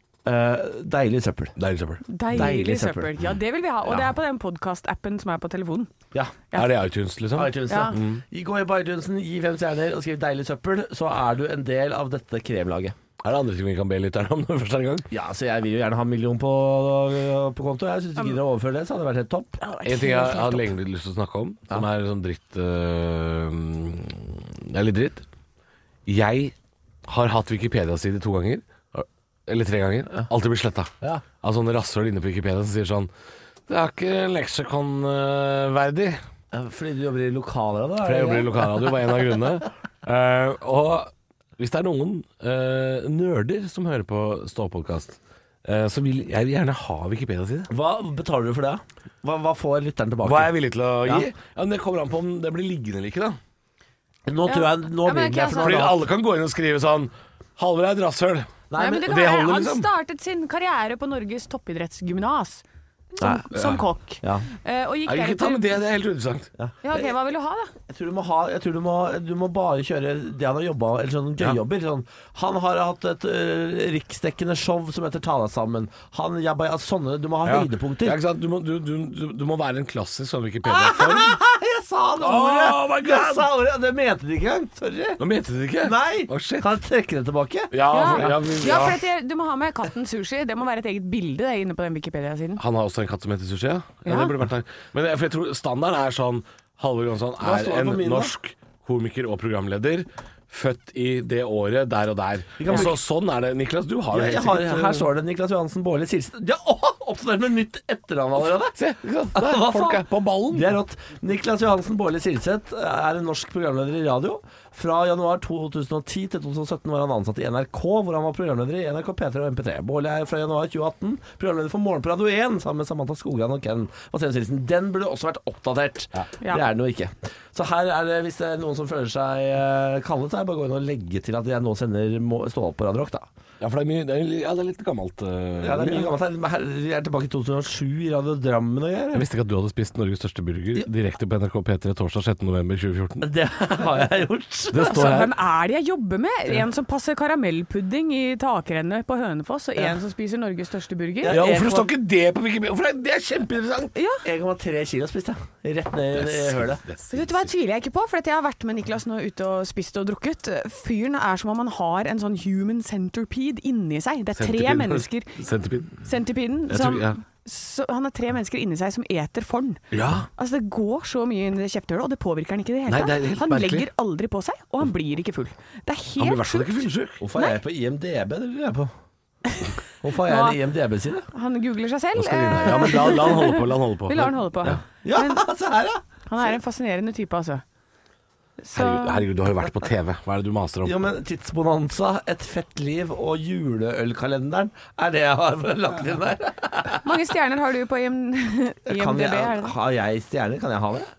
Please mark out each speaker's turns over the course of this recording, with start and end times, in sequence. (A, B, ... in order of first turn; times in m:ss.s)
0:00.2-0:01.6 A
0:01.6-0:02.5 B
0:02.1-0:05.9 C
0:02.3-0:03.1 A
0:03.8-0:04.1 A
0:06.5-0:08.2 B
0:07.4-0:13.0 A
0:07.7-0:08.0 C
0:13.2-0:15.1 B
0:15.1-0:19.6 A
0:19.6-0:20.7 C
0:19.8-0:25.2 B
0:26.1-0:26.5 B
0:27.1-0:33.1 B
0:33.7-0:36.2 B
0:36.5-0:39.6 A
0:38.0-0:47.7 B
0:47.7-0:51.3 A
0:50.2-0:53.4 B
0:54.3-0:56.0 A
0:54.5-0:55.9 C
0:55.6-0:59.9 B
0:58.7-0:59.1 A
0:58.8-1:02.6 C
1:03.2-1:03.5 A
1:03.2-1:05.7 C
1:03.5-1:03.8 B
1:05.1-1:06.5 B
1:06.6-1:07.1 A
1:06.8-1:07.7 C
1:07.9-1:18.2 A
1:17.4-1:21.4 B
1:20.7-1:25.2 A
1:22.2-1:23.5 B
1:25.2-1:26.7 B
1:25.8-1:28.4 A
1:27.7-1:29.0 B
1:27.9-1:32.6 C
1:32.6-1:45.1 B
1:34.1-1:34.3 C
1:37.4-1:38.3 A
1:42.6-1:43.0 A
1:44.1-1:48.8 A
1:48.8-1:50.8 B
1:49.3-2:13.3 A
2:13.6-2:16.1 B
2:15.6-2:19.3 A
2:19.1-2:23.3 B
2:23.2-2:25.0 A
2:24.7-2:25.3 B
2:24.7-2:31.6 C
2:31.2-2:31.9 A
2:31.3-2:33.9 B
2:34.0-2:34.2 C
2:34.2-2:36.8 A
2:36.1-2:37.5 B
2:37.1-2:45.3 C
2:44.3-2:46.0 B
2:46.0-2:49.8 C
2:46.7-2:47.2 B
2:49.9-2:50.3 B
2:50.4-2:56.8 C
2:52.9-2:53.9 B
2:56.2-2:57.2 B
2:57.2-2:58.9 A
2:57.4-2:57.6 C
3:00.0-3:01.3 A
3:00.3-3:00.6 C
3:01.3-3:05.4 C
3:02.2-3:04.8 B
3:05.0-3:06.0 A
3:06.3-3:07.6 C
3:08.6-3:09.2 C
3:08.7-3:11.0 B
3:10.8-3:17.0 A
3:17.0-3:19.8 C
3:18.9-3:21.1 A